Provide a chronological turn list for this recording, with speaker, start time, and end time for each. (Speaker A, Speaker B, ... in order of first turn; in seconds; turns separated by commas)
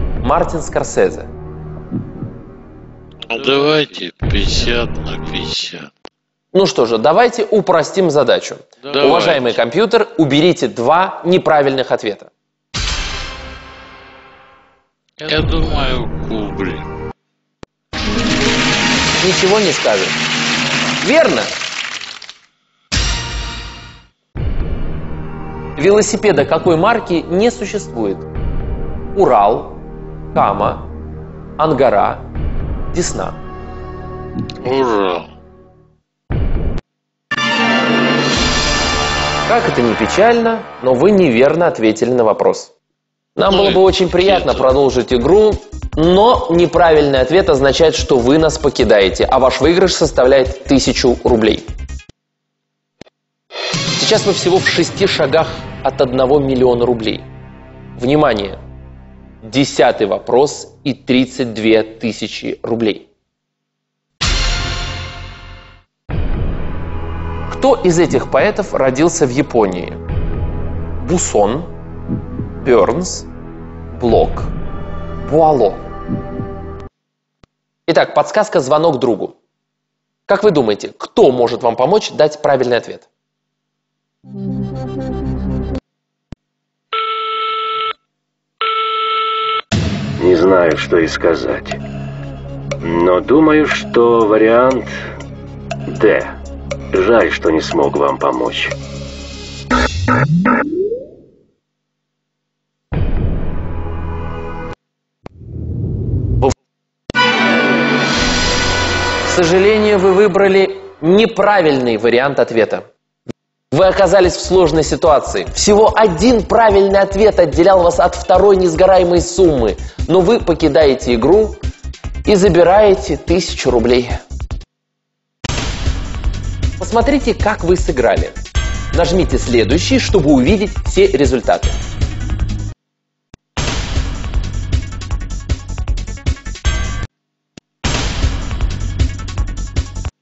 Speaker A: 0.2-1.3, Speaker B: 3.2-5.9, Speaker A: 6.5-12.3, Speaker B: 8.8-9.6, Speaker B: 15.2-16.9, Speaker A: 19.2-20.2, Speaker A: 21.0-21.7, Speaker A: 25.8-28.3, Speaker A: 29.1-29.8, Speaker A: 30.3-30.9, Speaker A: 31.6-32.3, Speaker A: 32.9-33.4, Speaker B: 34.6-35.3, Speaker A: 39.5-42.7, Speaker A: 43.4-51.7, Speaker B: 43.5-44.7, Speaker A: 54.0-57.2, Speaker A: 58.0-58.6, Speaker A: 59.4-63.1, Speaker A: 67.5-70.0, Speaker A: 71.0-71.7, Speaker A: 72.6-73.3, Speaker A: 73.9-74.5, Speaker A: 75.2-75.9, Speaker A: 77.9-79.3, Speaker A: 80.3-83.1, Speaker C: 90.2-91.8, Speaker C: 92.8-94.9, Speaker C: 95.9-96.3, Speaker C: 96.9-98.8, Speaker A: 109.2-112.8, Speaker A: 113.7-121.7, Speaker A: 122.2-124.2, Speaker A: 126.8-128.4, Speaker A: 128.9-131.8